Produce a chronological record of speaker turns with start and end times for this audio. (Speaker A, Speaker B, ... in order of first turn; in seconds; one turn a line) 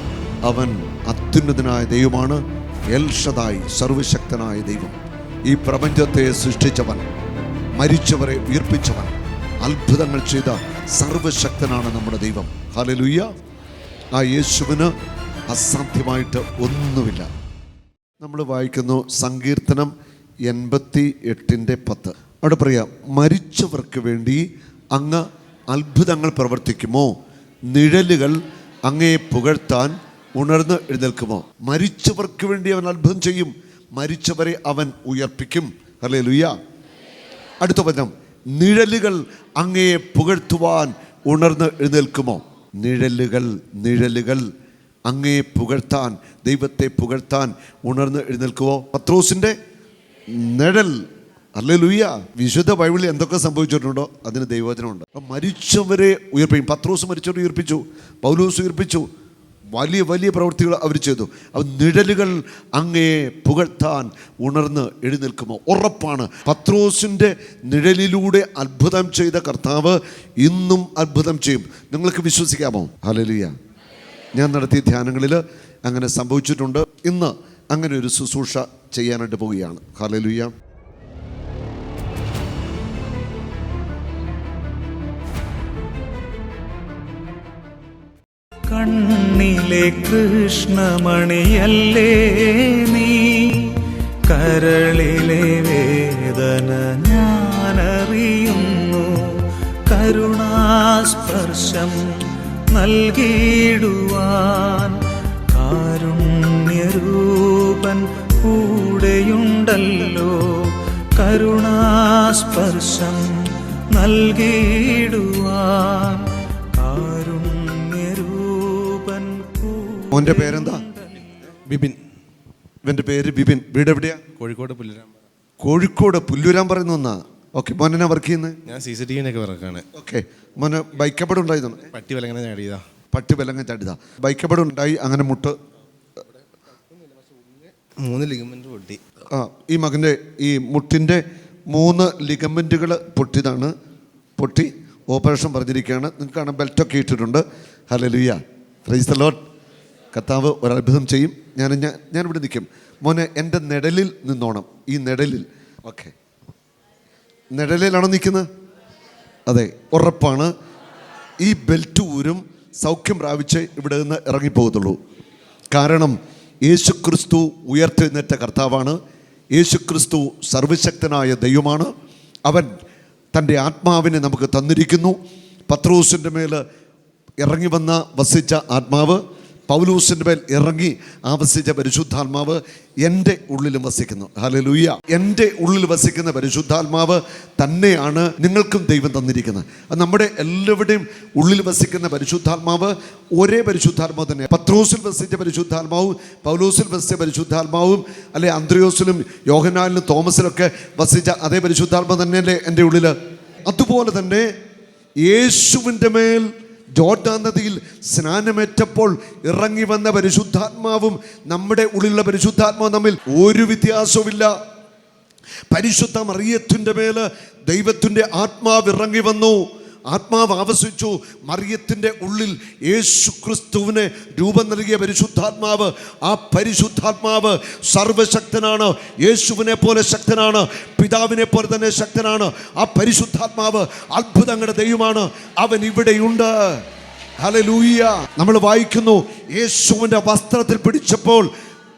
Speaker A: 0.4-2.4
Speaker A: 2.9-4.9
Speaker A: 5.5-7.0
Speaker A: 7.8-13.3
Speaker A: 14.1-14.9
Speaker A: 15.5-17.3
Speaker A: 18.2-19.9
Speaker A: 20.5-27.1
Speaker A: 27.7-36.5
Speaker A: 37.6-44.5
Speaker A: 45.1-49.6
Speaker A: 50.3-59.1
Speaker A: 59.7-73.5
Speaker A: 74.3-80.5
Speaker B: 88.7-121.4
Speaker A: 120.1-120.8
Speaker C: 121.7-122.0
Speaker A: 122.8-124.2
Speaker C: 124.4-125.1
Speaker A: 125.6-128.6
Speaker C: 128.7-129.8
Speaker A: 129.9-131.9
Speaker C: 131.9-132.8
Speaker A: 133.1-135.5
Speaker C: 137.2-139.0
Speaker A: 139.3-143.7
Speaker A: 144.4-149.4
Speaker A: 150.1-156.1
Speaker A: 157.5-158.5
Speaker A: 159.5-160.5
Speaker A: 161.4-165.0
Speaker A: 165.7-169.0
Speaker A: 169.5-171.9
Speaker A: 172.4-172.7
Speaker A: 173.3-176.6
Speaker A: 177.4-204.5
Speaker A: 205.2-214.5
Speaker A: 215.7-236.8
Speaker A: 237.4-241.5